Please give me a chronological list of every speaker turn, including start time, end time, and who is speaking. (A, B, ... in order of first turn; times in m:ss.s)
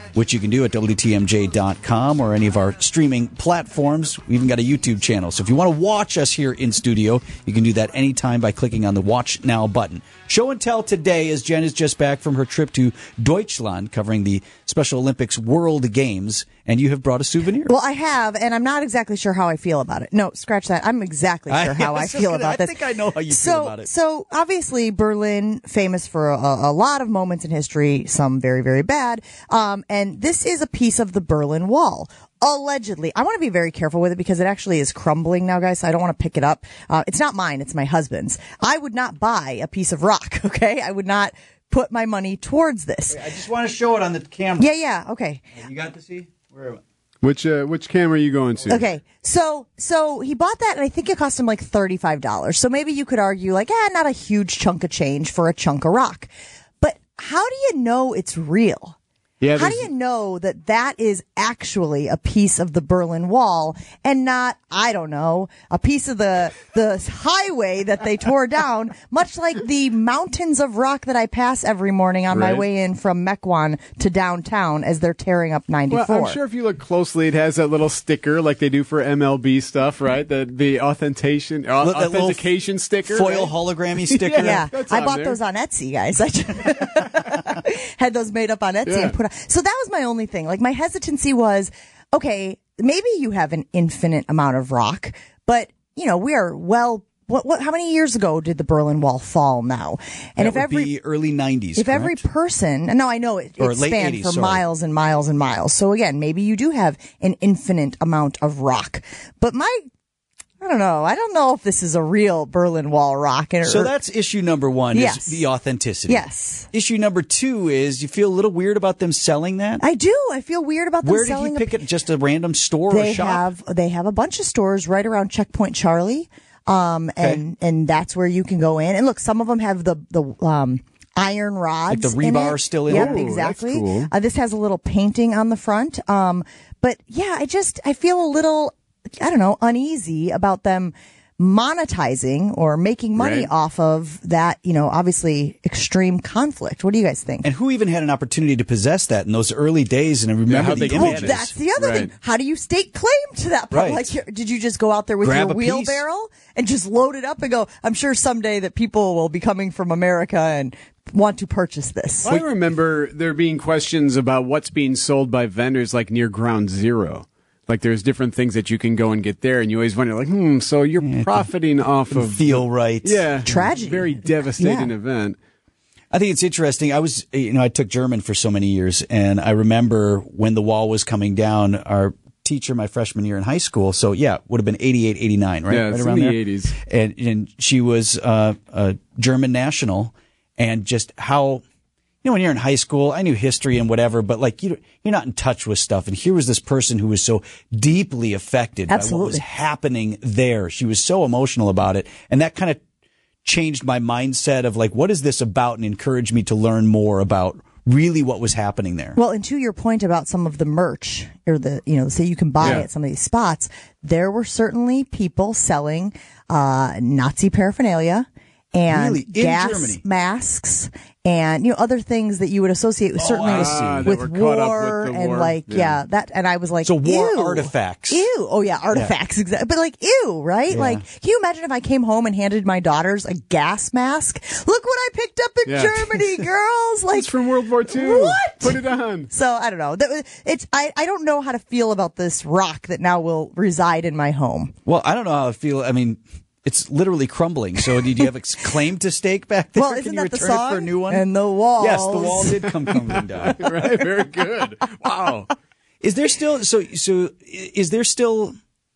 0:00.1-0:17.7 A
0:17.7-0:43.2 B
0:21.5-0:23.9 A
0:43.1-0:44.7 A
0:44.6-0:45.4 B
0:45.6-0:46.8 A
0:47.2-0:48.8 C
0:48.7-0:56.3 B
0:56.8-0:59.0 B
0:59.4-0:59.8 C
0:59.5-1:16.4 B
1:12.3-1:12.6 C
1:15.9-1:25.4 C
1:21.8-1:22.4 A
1:23.0-1:24.7 A
1:24.4-1:40.9 B
1:28.8-1:29.1 C
1:40.4-1:42.2 A
1:41.8-1:49.8 B
1:43.6-1:44.6 A
1:50.6-1:53.9 B
1:53.6-1:59.8 A
1:54.9-1:55.4 B
1:56.1-1:56.7 B
1:59.8-2:01.8 B
2:01.0-2:03.4 A
2:02.9-2:27.5 B
2:11.9-2:13.3 A
2:12.9-2:14.1 C
2:23.2-2:23.5 C
2:27.4-2:31.5 A
2:30.4-2:32.1 C
2:30.9-2:42.3 B
2:33.7-2:34.1 A
2:35.2-2:36.0 A
2:42.2-2:55.4 C
2:51.0-2:51.5 A
2:52.1-2:53.3 A
2:53.4-2:54.9 B
2:56.1-3:11.6 A
3:05.7-3:06.8 C
3:12.2-3:22.8 A
3:18.9-3:19.4 B
3:23.4-3:29.2 A
3:29.2-3:57.3 B
3:32.6-3:32.8 C
3:38.9-3:40.0 A
3:43.2-3:44.2 A
3:43.4-3:46.0 C
3:46.8-3:48.2 A
3:50.7-3:51.0 A
3:55.6-3:56.1 C
3:57.1-3:59.3 C
3:57.9-4:04.7 B
4:04.8-4:11.2 A
4:09.8-4:13.0 B
4:11.8-4:13.6 A
4:13.5-4:15.5 C
4:16.0-4:18.5 A